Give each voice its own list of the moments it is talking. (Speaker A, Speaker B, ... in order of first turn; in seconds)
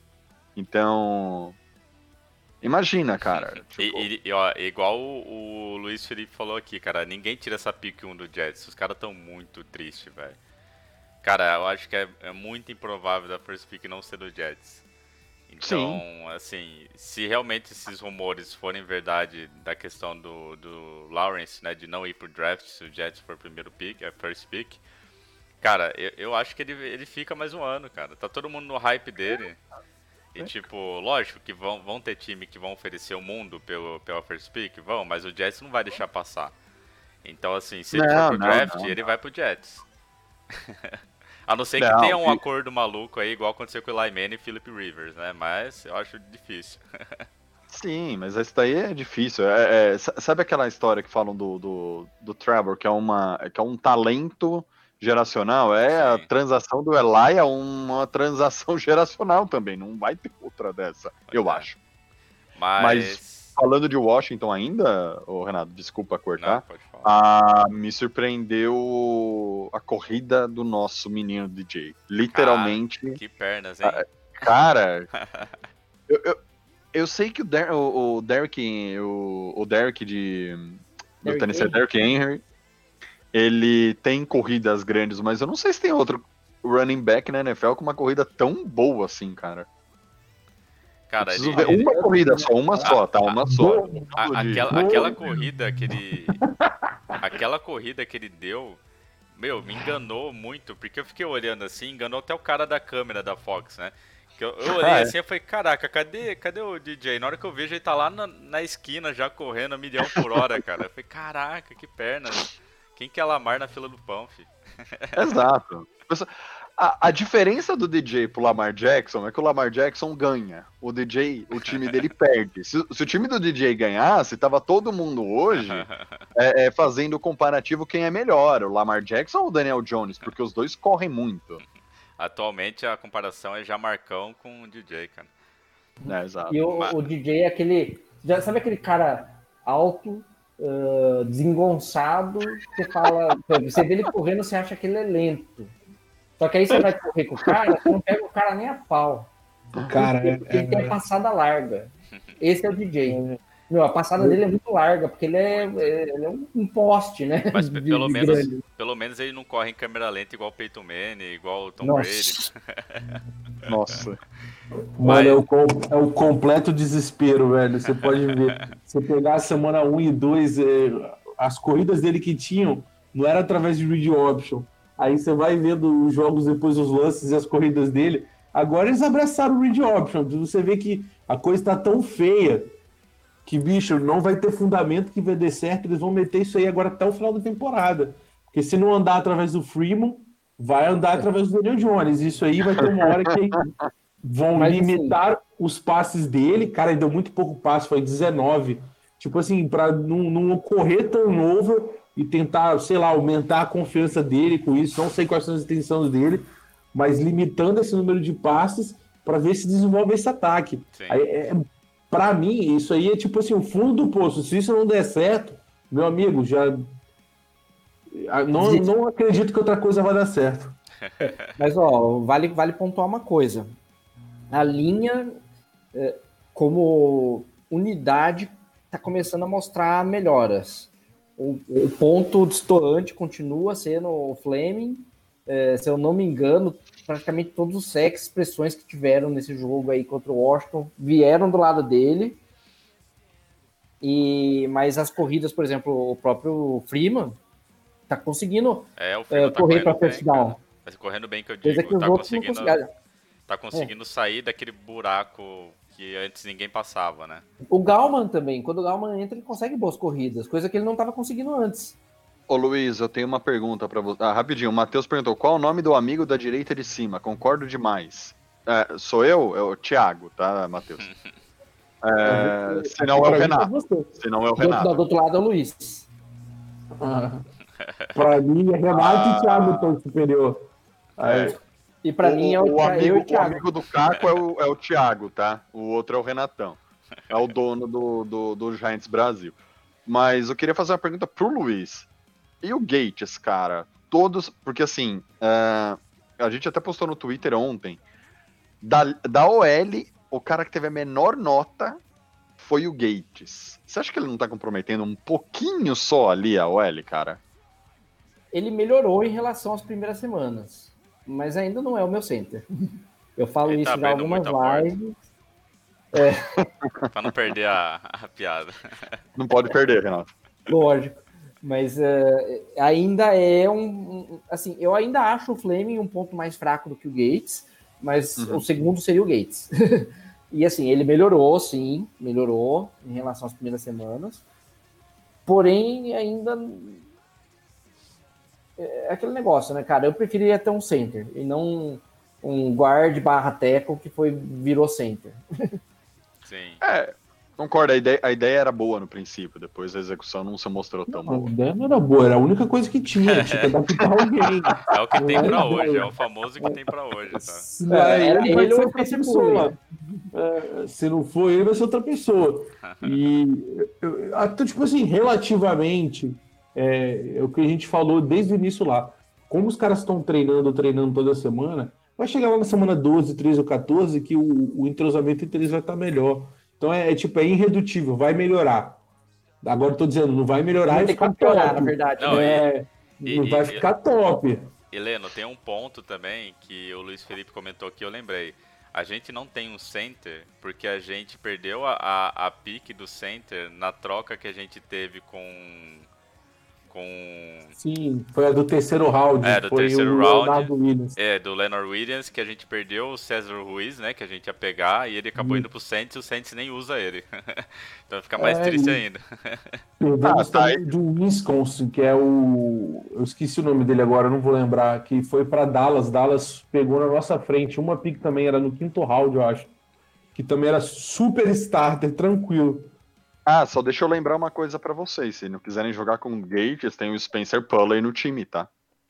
Speaker A: 0.6-1.6, 2.6-4.1, 15.6-16.0, 37.9-38.9, 41.8-42.4, 47.7-61.8, 62.8-73.2, 73.8-75.1, 76.1-76.4, 76.9-82.4, 83.3-89.7, 91.2-95.1, 104.6-105.1, 115.2-125.8, 126.4-131.6, 136.1-136.7, 163.7-164.2, 262.5-271.1, 272.0-275.0, 278.9-280.0, 281.2-281.6, 282.2-286.8, 287.3-292.1, 292.6-298.0, 298.8-302.0, 302.6-307.4, 316.8-317.3, 319.4-320.3, 328.4-328.6, 346.8-351.5, 410.2-410.8, 423.5-428.7
Speaker B: 3.2-10.4, 11.2-14.8, 15.5-24.8, 25.6-29.6, 30.4-36.5, 37.2-39.8, 40.6-47.2, 55.9-56.3, 61.3-61.7, 62.6-63.5, 66.4-67.1, 72.3-74.0, 75.2-75.5, 91.1-92.0, 92.8-93.4, 94.2-96.4, 97.2-98.8, 99.4-115.2, 121.7-121.9, 125.5-126.0, 132.2-135.3, 155.5-156.0, 157.5-163.0, 165.0-165.4, 167.9-168.6, 210.9-211.2, 249.0-252.8, 253.5-257.4, 313.7-314.9, 317.1-318.8, 346.4-346.8, 353.2-353.7, 354.9-357.7, 362.9-363.2, 382.2-382.6, 383.2-383.8, 384.9-396.1, 396.9-397.8, 399.4-409.8
Speaker C: 81.2-81.8, 91.6-92.9, 136.0-145.7, 146.4-158.6, 161.8-162.5, 194.6-195.2, 218.6-218.9, 221.2-223.7, 224.5-225.4, 225.9-242.4, 244.0-247.4, 248.1-250.6, 251.6-252.9, 257.7-262.0, 274.6-276.1, 282.0-283.6, 308.5-312.6, 313.4-315.1, 316.1-316.7, 320.7-334.4, 335.5-337.0, 338.8-345.4, 357.9-359.8, 380.9-382.6
Speaker D: 93.6-94.1, 94.7-95.4, 96.2-97.2, 149.9-151.0, 153.1-153.4, 158.1-158.5, 165.0-182.7, 183.5-193.7, 194.2-216.8, 218.1-220.8, 272.2-274.1, 277.0-277.4, 278.1-281.6, 351.1-356.1, 357.5-359.8, 360.3-379.0, 379.6-384.7, 397.8-401.2, 405.4-405.7, 408.4-409.0, 410.0-419.7, 420.4-422.9